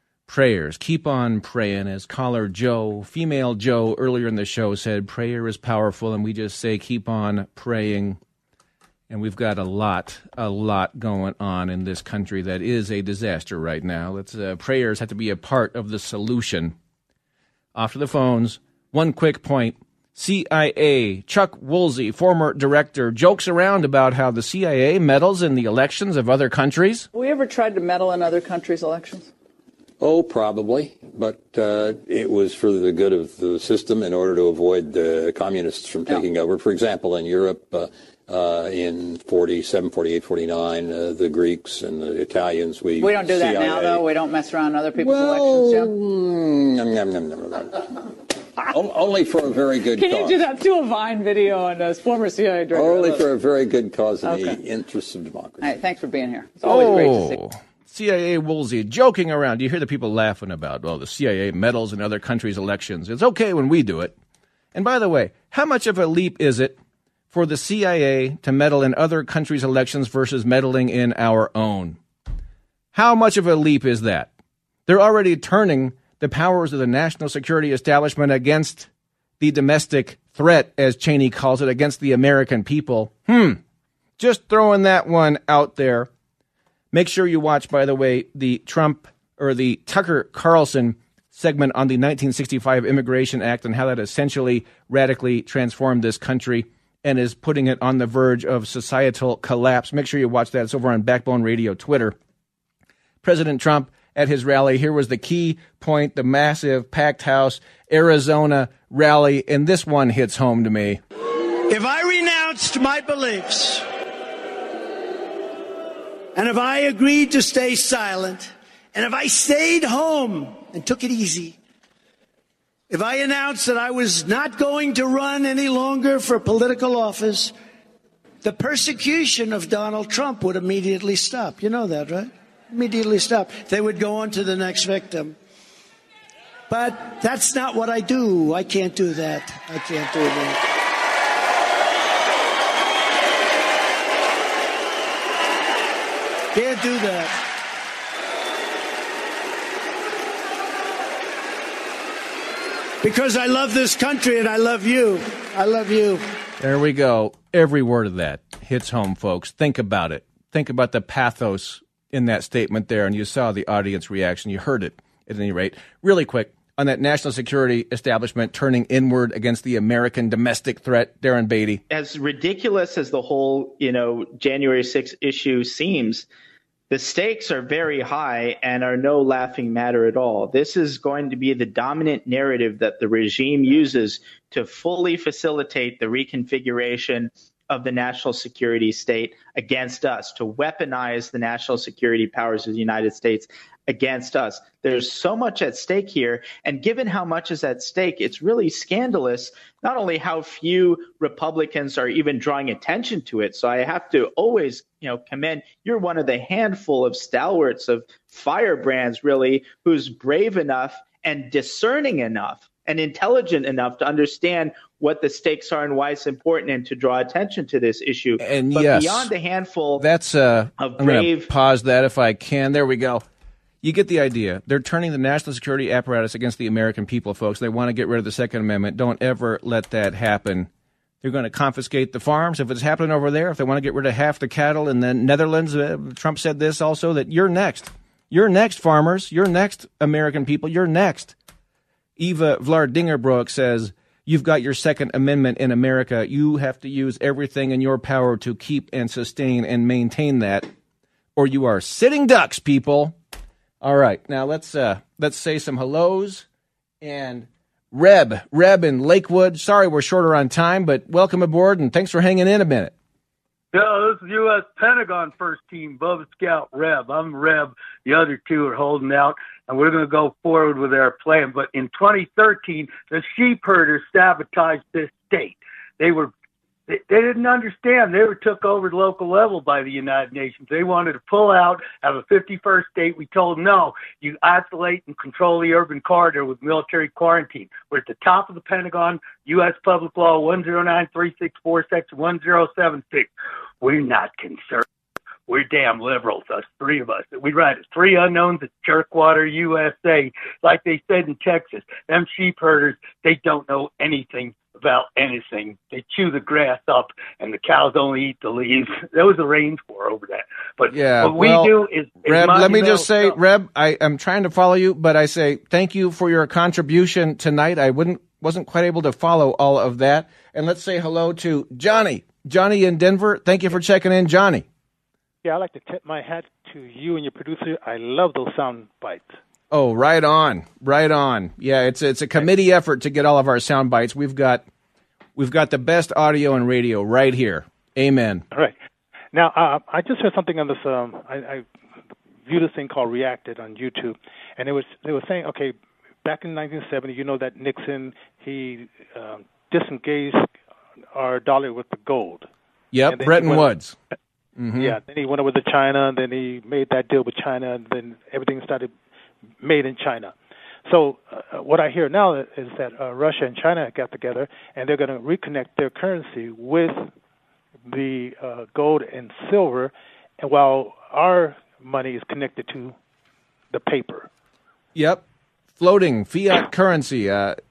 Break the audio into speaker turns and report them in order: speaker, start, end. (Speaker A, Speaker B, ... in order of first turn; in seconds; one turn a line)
Speaker A: 0.3-8.2
Speaker A: 9.1-16.8
Speaker A: 17.8-27.1
Speaker B: 27.1-29.3
Speaker C: 30.0-44.1
Speaker B: 43.0-45.9
Speaker C: 44.9-50.5
Speaker B: 50.0-53.3
Speaker C: 52.7-55.7
Speaker B: 54.2-54.6
Speaker B: 55.6-57.4
Speaker A: 56.6-64.2
Speaker C: 56.7-57.1
Speaker A: 64.7-66.8
Speaker A: 67.3-72.0
Speaker A: 72.9-74.3
Speaker A: 74.9-78.9
Speaker A: 79.4-83.6
Speaker A: 84.2-86.1
Speaker A: 86.9-102.2
Speaker A: 103.2-111.0
Speaker D: 111.7-113.8
Speaker D: 116.3-121.6
Speaker D: 122.9-127.5
Speaker D: 128.4-135.4
Speaker D: 136.7-140.6
Speaker D: 146.5-147.4
Speaker D: 153.0-156.2
Speaker A: 156.6-171.8
Speaker E: 171.9-176.3
Speaker E: 176.9-220.1
Speaker A: 218.4-219.3
Speaker A: 220.0-223.2
Speaker E: 220.8-221.5
Speaker A: 223.8-230.7
Speaker A: 231.2-241.3
Speaker A: 242.2-250.7
Speaker A: 251.4-253.2
Speaker A: 253.8-256.5
Speaker A: 257.0-262.9
Speaker F: 263.7-276.3
Speaker F: 276.9-293.3
Speaker F: 293.8-294.9
Speaker F: 295.5-313.4
Speaker A: 310.9-324.6
Speaker G: 325.4-329.4
Speaker A: 329.7-334.7
Speaker A: 335.4-338.4
Speaker G: 339.3-341.7
Speaker G: 342.4-350.5
Speaker G: 351.1-352.5
Speaker A: 352.9-353.9
Speaker G: 353.1-353.7
Speaker A: 354.6-355.0
Speaker G: 354.8-358.9
Speaker G: 359.6-360.3
Speaker G: 360.9-367.1
Speaker G: 367.9-373.0
Speaker G: 373.7-374.3
Speaker A: 374.9-375.2
Speaker A: 375.8-377.6